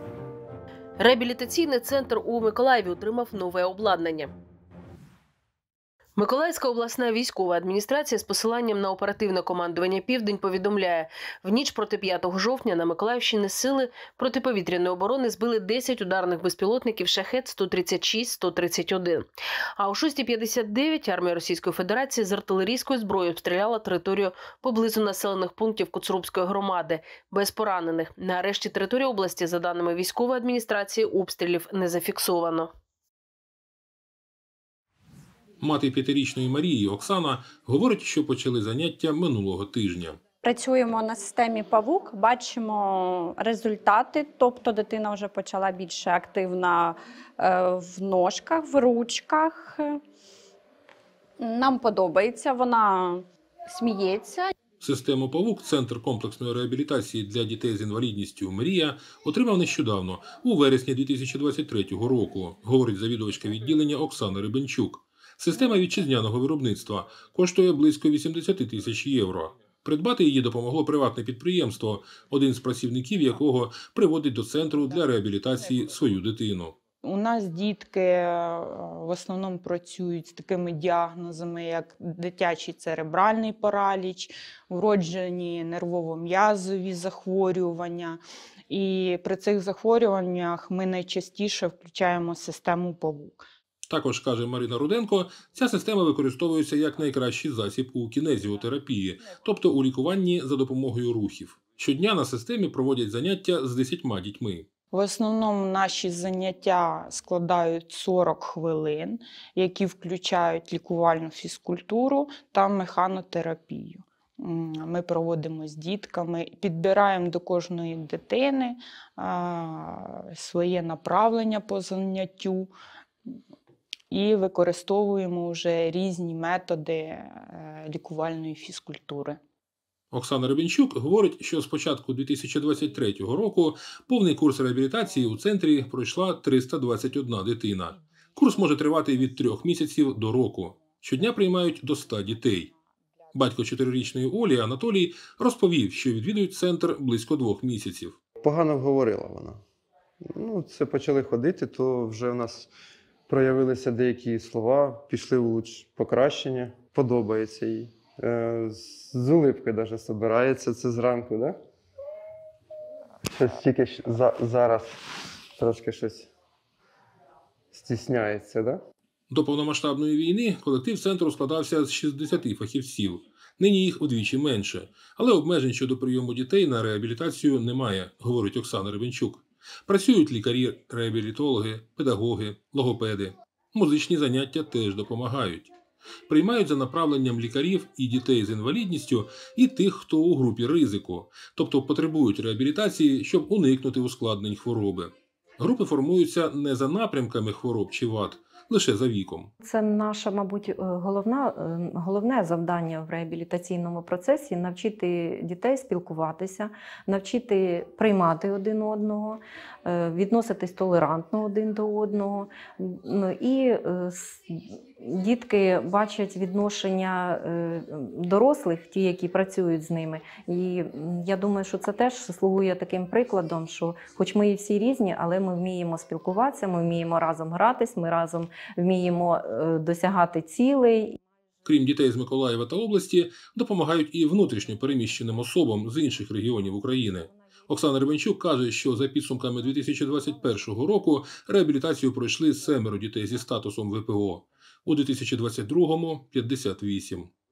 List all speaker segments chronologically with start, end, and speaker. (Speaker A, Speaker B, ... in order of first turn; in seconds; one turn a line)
Speaker A: 1.0-4.3
Speaker A: 6.2-32.7
Speaker B: 35.6-40.2
Speaker C: 40.4-50.0
Speaker C: 51.4-54.5
Speaker B: 54.8-76.8
Speaker D: 77.0-93.4
Speaker B: 93.9-104.7
Speaker D: 104.9-122.7
Speaker D: 124.1-129.4
Speaker B: 130.1-142.7
Speaker B: 143.3-148.2
Speaker E: 148.4-149.6
Speaker E: 150.3-152.7
Speaker E: 153.3-161.6
Speaker E: 163.3-164.9
Speaker E: 165.6-166.3
Speaker E: 167.7-168.8
Speaker B: 169.3-185.7
Speaker B: 186.3-199.5
Speaker F: 199.6-231.2
Speaker B: 231.6-247.3